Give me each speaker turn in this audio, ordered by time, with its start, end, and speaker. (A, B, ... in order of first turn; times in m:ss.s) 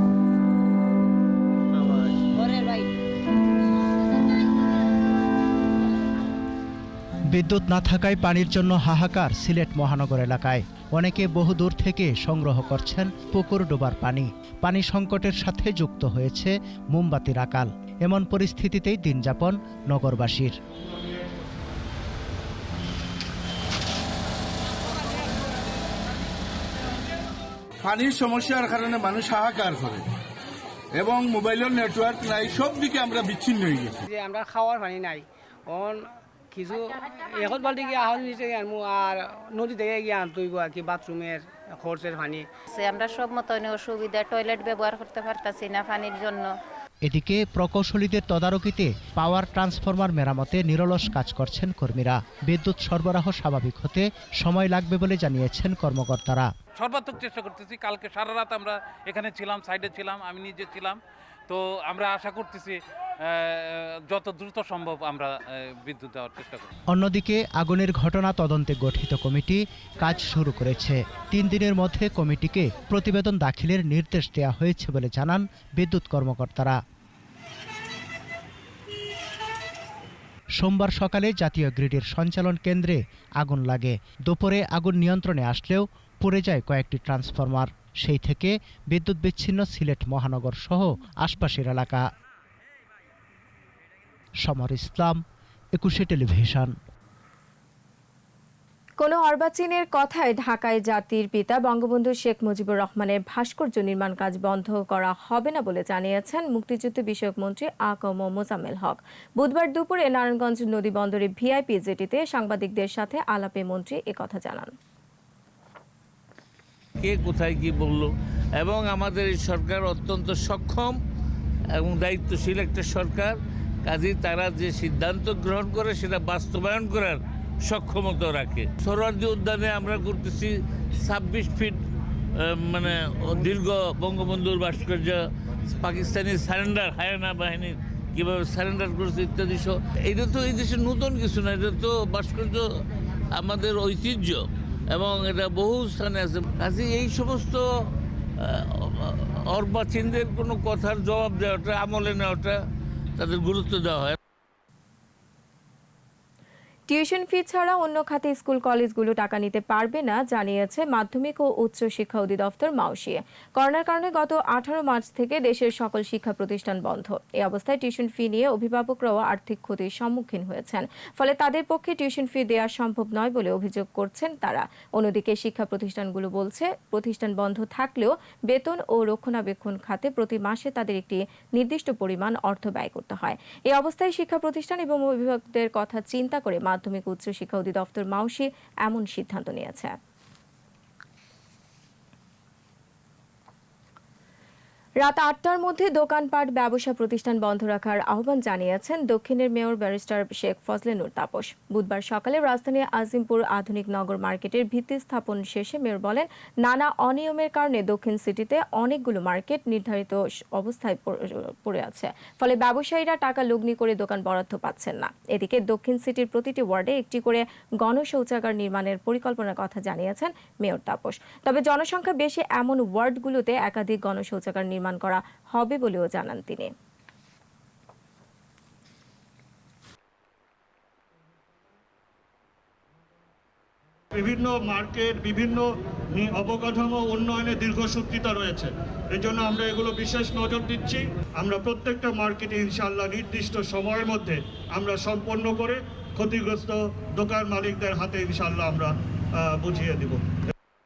0:02.4-0:02.8 A
0:07.3-0:20.5 B
0:27.8-0:30.0 C
0:31.0-0:33.9 C
0:34.1-0:36.0 D
0:36.5-0:42.4 D
0:42.7-0:46.5 A
0:47.0-0:56.5 B
0:56.8-1:06.7 E
1:06.9-1:16.8 B
1:20.5-1:32.0 B
1:34.4-1:35.2 B
1:35.8-1:36.7 B
1:39.0-1:54.7 F
1:57.0-2:01.0 G
2:01.7-2:03.3 G
2:03.8-2:11.8 G
2:12.4-2:15.2 G
2:15.8-2:22.6 G
2:23.3-2:27.6 G
2:28.4-2:32.6 G
2:33.2-2:34.2 G
2:36.9-3:09.9 F
3:15.0-3:46.7 F
3:54.2-3:55.6 H
3:56.2-4:08.9 H
4:09.5-4:10.2 H